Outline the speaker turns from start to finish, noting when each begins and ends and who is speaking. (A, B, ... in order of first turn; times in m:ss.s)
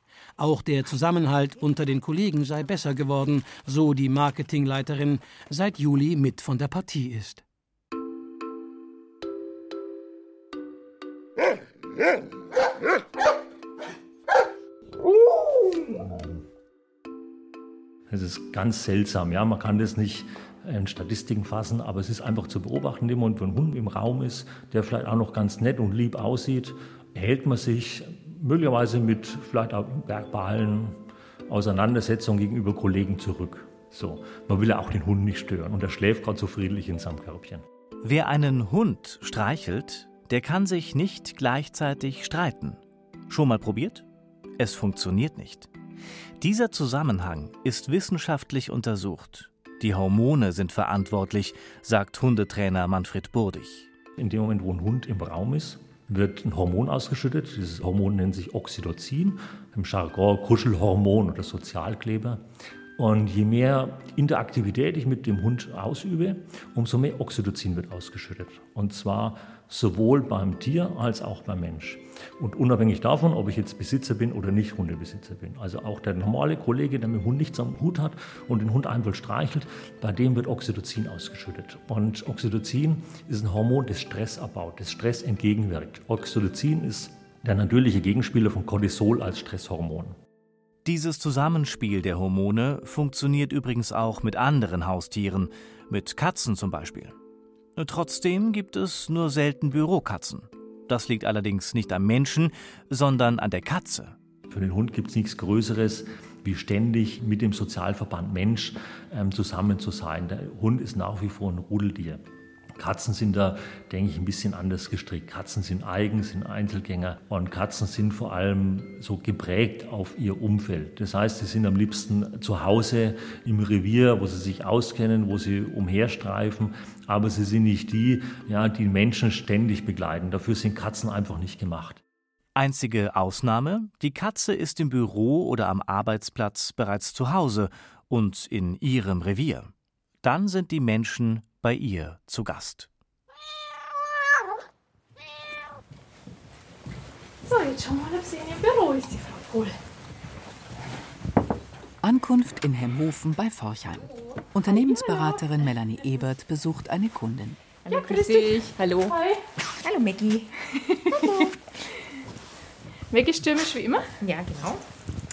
0:00.4-0:07.4 A
0:18.1-0:37.6 B
0:38.0-0:44.0 C
0:44.6-0:45.7 C
0:46.4-0:53.9 C
0:54.2-1:02.4 B
1:03.0-1:30.2 B
1:30.8-1:37.1 C
1:37.8-1:44.2 C
1:44.5-1:52.2 B
1:52.8-2:12.0 B
2:12.6-2:19.7 C
2:20.2-2:22.9 C
2:27.4-2:29.8 D
2:32.0-2:37.6 E
2:37.8-2:39.1 F
2:37.9-2:39.4 D
2:39.9-2:40.4 F
2:41.1-2:41.5 D
2:43.1-2:44.1 D
2:44.2-2:44.8 F